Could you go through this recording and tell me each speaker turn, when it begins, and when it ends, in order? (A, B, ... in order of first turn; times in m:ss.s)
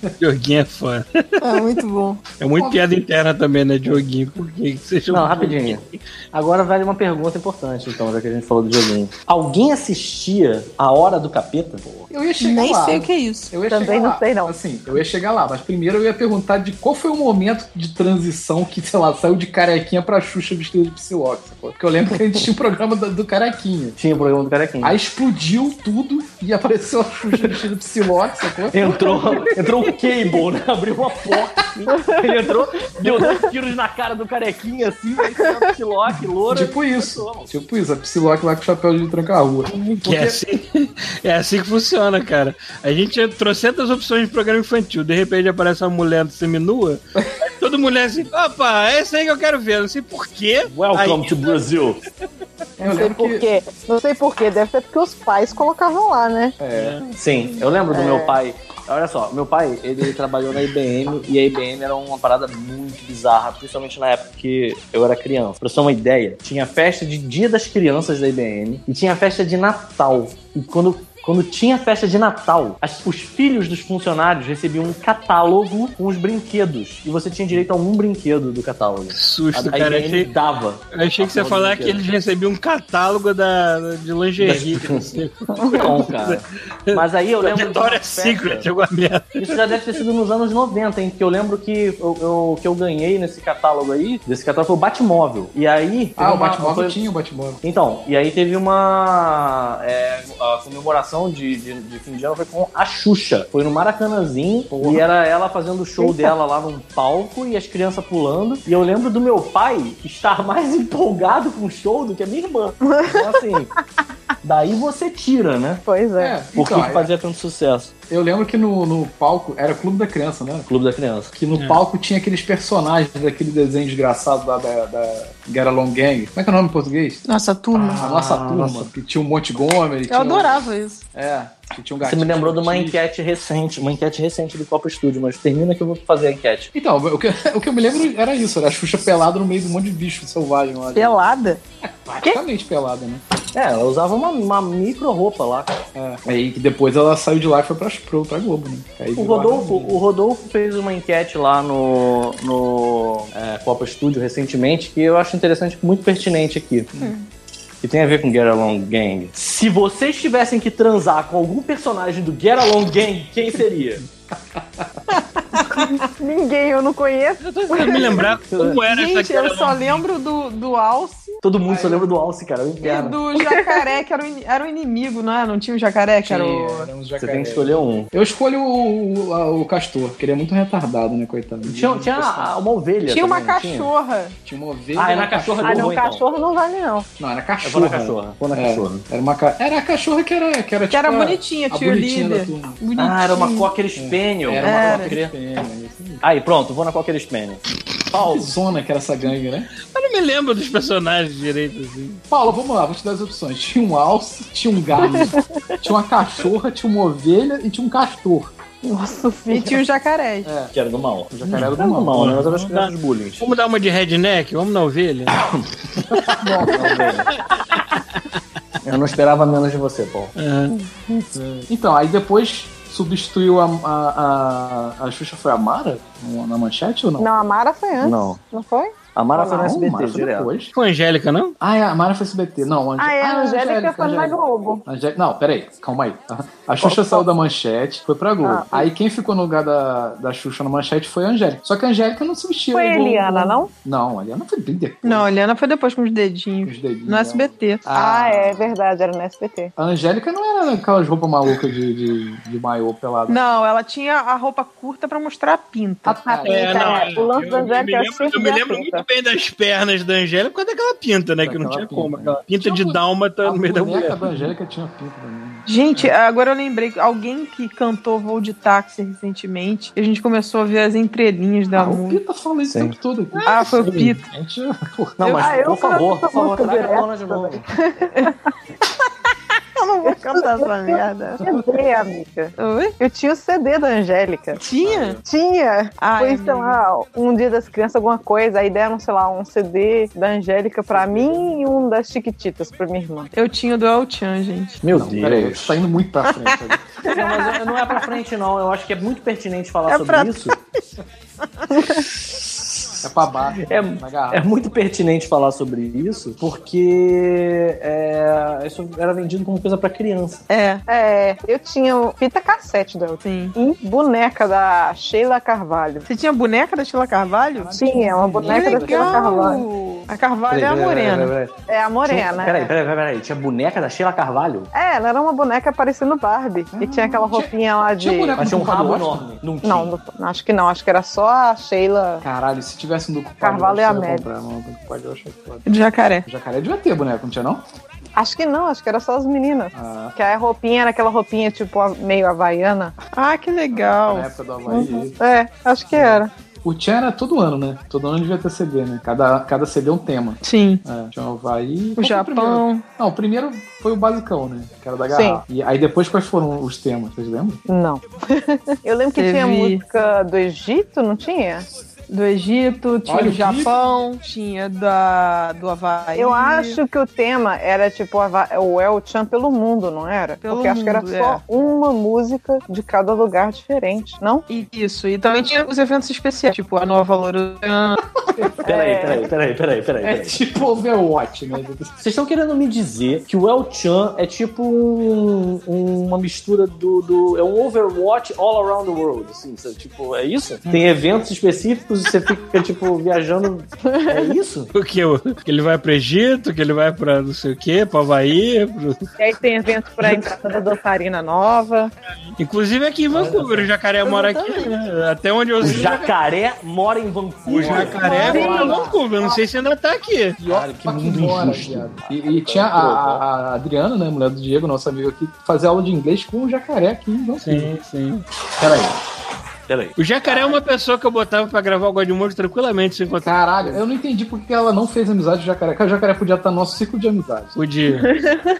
0:00.2-0:01.4 A
0:01.4-0:02.2 B
0:02.4-0:05.8 A
0:02.6-0:02.9 C
0:05.1-0:12.1 D
0:12.1-0:24.0 C
0:12.4-0:13.6 B
0:13.6-0:14.5 E
0:24.0-0:25.0 D
0:24.8-0:29.6 C
0:28.7-0:37.5 D
0:36.5-0:40.4 C
0:40.0-0:51.6 A
0:50.7-0:52.0 D
0:52.8-0:53.5 C
0:52.8-0:56.6 E
0:56.6-0:57.0 C
0:56.7-0:57.1 A
0:57.1-1:22.0 D
0:57.9-0:58.4 E
1:19.2-1:20.3 A
1:20.9-1:29.8 A
1:24.4-1:25.1 D
1:25.6-1:25.9 E
1:25.7-1:28.7 D
1:29.4-1:37.0 D
1:36.2-1:37.6 C
1:37.6-1:53.7 D
1:44.7-1:45.1 C
1:46.0-1:46.3 E
1:52.9-1:53.2 E
1:54.4-1:55.8 D
1:55.9-1:56.4 E
1:56.2-1:57.1 C
1:56.6-1:57.9 D
1:58.1-2:00.7 C
2:00.7-2:01.3 D
2:01.3-2:07.2 C
2:01.6-2:01.8 A
2:07.3-2:08.0 B
2:07.7-2:08.9 D
2:08.0-2:13.0 C
2:10.1-2:11.0 B
2:12.0-2:16.7 D
2:16.7-2:21.1 C
2:20.9-2:21.6 B
2:21.8-2:23.2 C
2:23.5-2:25.8 D
2:25.9-2:30.0 C
2:29.2-2:36.9 D
2:37.0-2:37.3 B
2:37.8-2:44.0 D
2:44.6-2:44.9 C
2:45.6-2:48.3 E
2:47.4-2:50.0 A
2:48.5-2:48.8 D
2:48.8-2:51.4 B
2:51.4-2:53.2 D
2:51.7-2:52.0 C
2:52.8-2:56.9 B
2:53.4-2:53.9 E
2:56.2-3:02.5 C
2:57.2-2:58.1 D
3:01.6-3:03.9 D
3:03.0-3:04.3 B
3:04.4-3:06.0 C
3:05.0-3:06.3 D
3:05.6-3:07.1 E
3:07.2-3:12.8 C
3:07.6-3:09.0 D
3:10.9-3:13.7 B
3:13.0-3:15.3 D
3:14.0-3:16.2 C
3:14.6-3:15.1 B
3:16.2-3:18.5 D
3:18.1-3:19.7 C
3:19.9-3:22.2 A
3:22.3-3:28.5 C
3:28.8-3:29.8 E
3:29.5-3:30.5 B
3:30.4-3:30.7 C
3:30.7-3:33.5 D
3:31.3-3:32.5 C
3:31.5-3:35.4 A
3:35.4-3:35.7 D
3:36.1-3:37.3 C
3:36.6-3:37.3 D
3:38.9-3:40.4 D
3:40.4-3:40.7 A
3:40.7-3:41.3 E
3:41.4-3:47.3 C
3:47.2-3:49.7 E
3:48.0-3:48.4 D
3:49.1-3:50.5 D
3:49.4-3:50.7 C
3:50.7-3:51.6 A
3:51.6-4:05.3 C
3:53.0-3:54.8 E
3:56.8-3:57.2 E
3:58.4-3:58.9 E
4:02.7-4:03.7 E
4:05.0-4:07.9 B
4:06.6-4:08.8 C
4:07.9-4:09.7 E
4:09.8-4:13.4 C
4:13.3-4:16.8 B
4:16.0-4:17.1 C
4:16.4-4:19.0 E
4:16.5-4:24.2 A
4:21.4-4:26.1 C
4:25.7-4:32.2 B
4:31.7-4:35.6 C
4:32.7-4:32.9 D
4:33.4-4:34.2 B
4:35.2-4:37.7 D
4:35.4-4:38.4 E
4:39.8-4:41.4 B
4:40.0-4:44.6 E
4:42.6-4:43.0 B
4:44.6-4:45.2 B
4:44.8-4:45.2 C
4:45.2-4:53.3 E
4:46.0-4:46.8 B
4:50.9-4:51.4 C
4:53.3-4:54.8 B
4:54.8-4:55.8 D
4:54.9-4:56.9 C
4:57.0-5:00.6 D
4:57.1-4:57.5 B
4:59.9-5:00.6 B
5:01.7-5:02.0 E
5:02.0-5:02.6 D
5:03.0-5:04.5 C
5:03.6-5:10.4 D
5:10.5-5:10.8 B
5:10.9-5:16.1 E
5:13.2-5:13.6 B
5:16.1-5:21.3 B
5:17.5-5:19.5 C
5:17.8-5:19.6 E
5:20.5-5:21.5 D
5:21.7-5:22.7 E
5:22.1-5:24.7 D
5:24.7-5:28.4 E
5:26.7-5:29.4 C
5:28.4-5:30.0 D
5:29.6-5:32.2 E
5:32.2-5:35.6 C
5:33.4-5:34.2 E
5:35.7-5:36.3 B
5:36.3-5:37.6 C
5:38.2-5:43.0 E
5:39.7-5:40.2 C
5:43.1-5:44.3 B
5:43.8-5:45.1 C
5:44.7-5:46.3 E
5:45.9-5:57.6 C
5:50.4-5:50.8 B
5:52.0-5:52.8 B
5:55.1-5:55.4 E
5:57.7-6:01.7 E
5:59.2-5:59.8 B
6:02.1-6:06.8 B
6:03.1-6:03.8 C
6:06.1-6:14.5 E
6:10.4-6:11.4 B
6:14.5-6:18.0 B
6:18.6-6:19.3 E
6:18.6-6:20.4 D
6:20.0-6:21.9 C
6:22.0-6:34.7 D
6:33.8-6:34.4 E
6:34.8-6:39.0 A
6:39.2-6:41.9 E
6:42.4-6:46.1 A
6:43.1-6:43.6 C
6:43.2-6:43.7 D
6:44.0-6:44.7 E
6:45.6-6:48.4 D
6:47.5-6:50.4 A
6:47.5-6:49.0 C
6:48.0-6:49.4 E
6:50.4-6:57.7 C
6:50.5-6:53.2 D
6:57.4-6:58.2 A
6:58.6-6:58.9 C
6:59.7-7:00.5 D
7:00.0-7:03.8 A
7:03.2-7:07.6 C
7:07.6-7:08.1 A